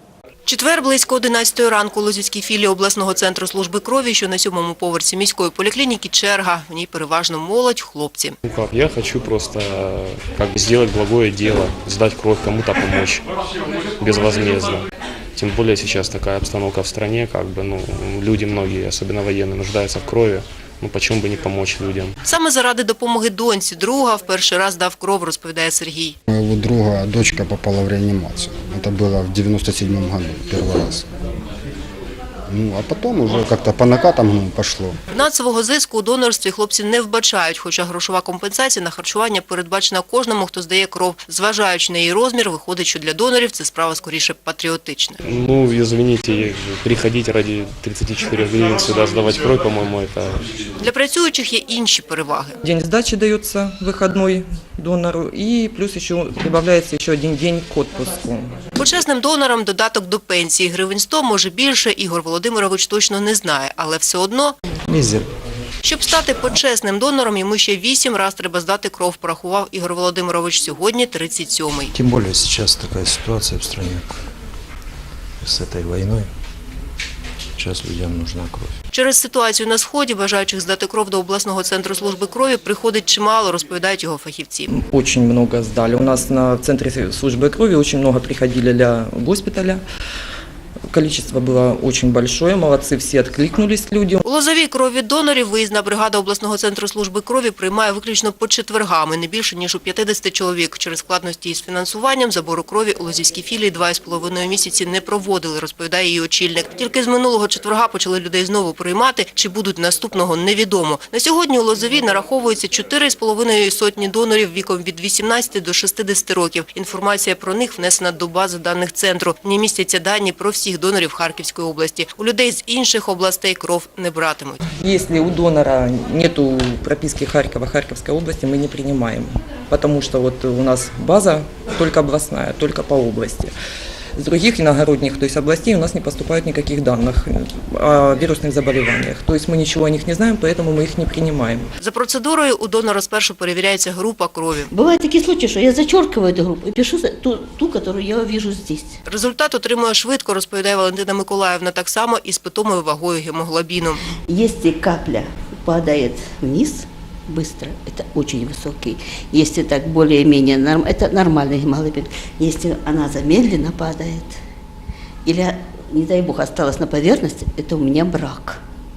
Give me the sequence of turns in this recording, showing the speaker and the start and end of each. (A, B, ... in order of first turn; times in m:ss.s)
0:00.5-0:08.4 A
0:08.4-0:13.2 B
0:14.0-0:22.2 B
0:22.2-0:26.2 A
0:26.3-0:31.1 C
0:32.5-0:35.0 C
0:35.1-0:45.2 A
0:45.2-0:50.5 B
0:50.8-0:52.6 A
0:52.6-0:58.6 D
0:58.8-1:04.6 A
1:04.9-1:05.3 E
1:05.8-1:11.9 A
1:11.9-1:14.2 E
1:15.4-1:16.3 E
1:17.6-1:18.8 E
1:18.9-1:24.7 A
1:24.7-1:29.8 D
1:30.9-1:34.2 D
1:34.2-2:04.6 A
2:04.7-2:13.5 D
2:14.2-2:21.7 D
2:21.8-2:24.7 A
2:24.7-2:29.0 F
2:29.1-2:34.0 A
2:34.3-2:44.4 F
2:45.2-2:48.6 F